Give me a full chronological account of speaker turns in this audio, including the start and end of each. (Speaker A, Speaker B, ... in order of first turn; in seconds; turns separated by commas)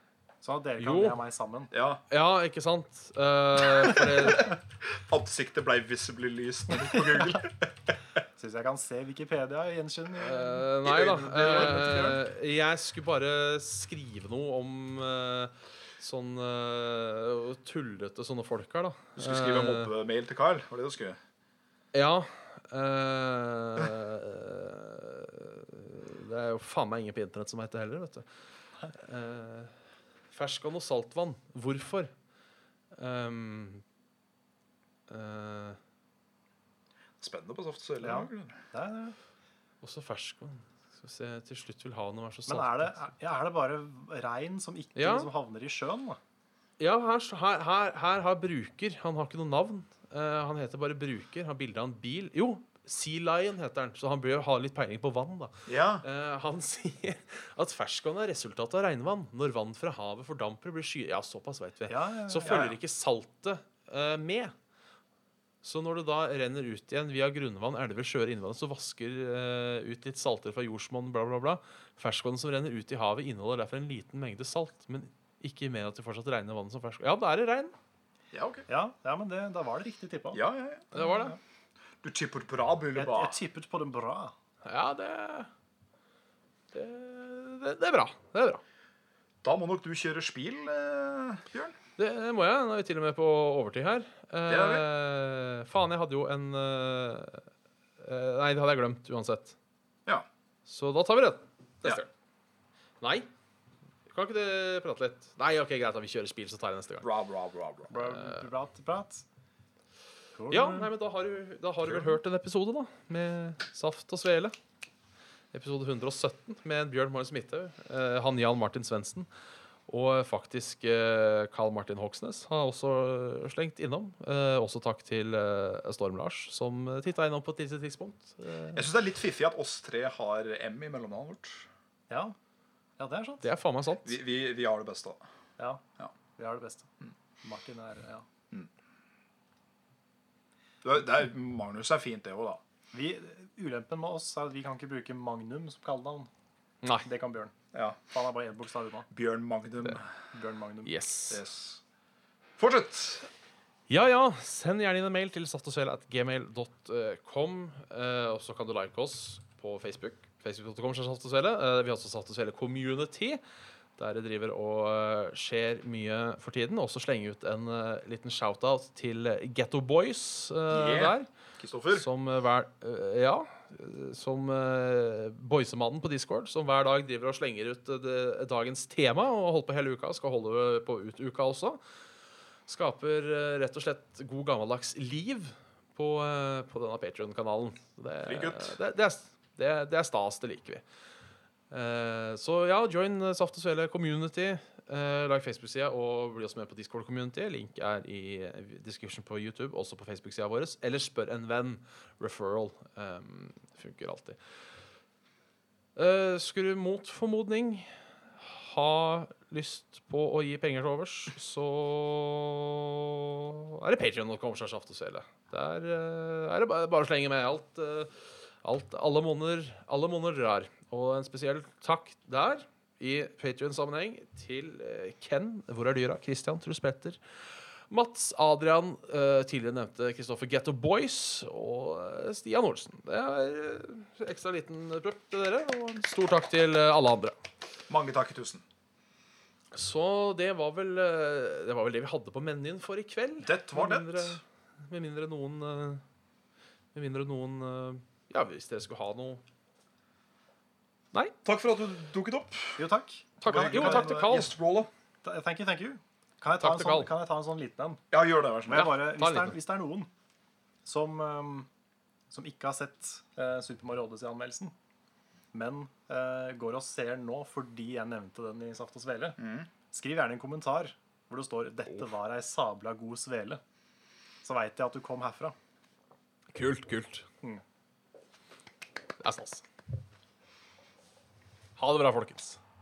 Speaker A: 0.4-1.7, Speaker B: 0.8-1.2, Speaker C: 1.7-2.0, Speaker B: 2.1-4.6, Speaker C: 4.8-7.9, Speaker A: 7.0-7.4, Speaker A: 8.4-10.7, Speaker B: 10.2-19.9, Speaker C: 10.8-12.2, Speaker A: 11.3-12.2, Speaker C: 19.2-21.2, Speaker B: 21.9-28.3, Speaker B: 28.9-29.7, Speaker B: 30.3-32.1, Speaker B: 32.9-33.8, Speaker B: 35.1-35.8, Speaker C: 37.2-38.6, Speaker A: 38.0-39.1, Speaker B: 39.8-43.0, Speaker A: 42.5-46.2, Speaker B: 45.0-45.3, Speaker B: 46.8-64.5, Speaker C: 55.7-56.0, Speaker A: 61.9-62.7, Speaker C: 62.4-62.7, Speaker B: 65.6-77.7, Speaker C: 78.3-78.6, Speaker A: 78.7-80.4, Speaker C: 80.3-80.9, Speaker B: 80.9-81.3, Speaker A: 80.9-81.4, Speaker C: 82.0-83.3, Speaker A: 82.9-84.3, Speaker B: 84.6-85.5, Speaker B: 86.7-88.6, Speaker C: 89.4-91.8, Speaker B: 92.0-97.5, Speaker C: 94.5-94.8, Speaker B: 98.0-99.5, Speaker B: 100.7-102.1, Speaker B: 103.0-103.3, Speaker B: 104.1-107.1, Speaker C: 107.0-107.9, Speaker A: 107.9-109.2, Speaker B: 107.9-108.4, Speaker A: 110.3-110.9, Speaker B: 110.5-114.5, Speaker C: 111.8-112.1, Speaker B: 115.5-119.3, Speaker B: 119.9-128.8, Speaker C: 128.7-131.7, Speaker A: 132.1-132.3, Speaker A: 133.0-133.5, Speaker B: 133.4-134.2, Speaker C: 134.0-135.2, Speaker A: 135.6-135.8, Speaker A: 136.4-136.9, Speaker A: 137.4-138.2, Speaker C: 140.8-142.6, Speaker A: 142.9-146.3, Speaker A: 147.0-147.5, Speaker A: 148.1-149.1, Speaker C: 149.1-150.1, Speaker A: 150.3-150.9, Speaker B: 150.8-151.4, Speaker C: 151.3-151.8, Speaker C: 152.6-153.3, Speaker B: 153.9-163.4, Speaker B: 164.0-171.3, Speaker C: 170.7-172.1, Speaker B: 171.9-181.8, Speaker B: 182.7-190.8, Speaker C: 188.2-188.7, Speaker B: 191.7-204.4, Speaker B: 205.9-227.2, Speaker B: 227.9-237.4, Speaker C: 237.9-238.6, Speaker B: 239.7-246.0, Speaker C: 243.4-244.4, Speaker B: 246.9-249.4, Speaker C: 251.4-252.8, Speaker A: 252.8-254.1, Speaker B: 253.4-254.5, Speaker C: 253.4-254.9, Speaker A: 255.2-258.0, Speaker B: 256.6-257.1, Speaker C: 258.1-258.9, Speaker A: 258.7-260.1, Speaker B: 258.7-259.6, Speaker A: 260.8-261.7, Speaker A: 262.3-264.7, Speaker A: 265.5-269.4, Speaker C: 269.4-269.7, Speaker A: 269.9-273.6, Speaker A: 274.4-275.5, Speaker B: 276.5-277.2, Speaker B: 279.2-279.6, Speaker B: 281.8-282.6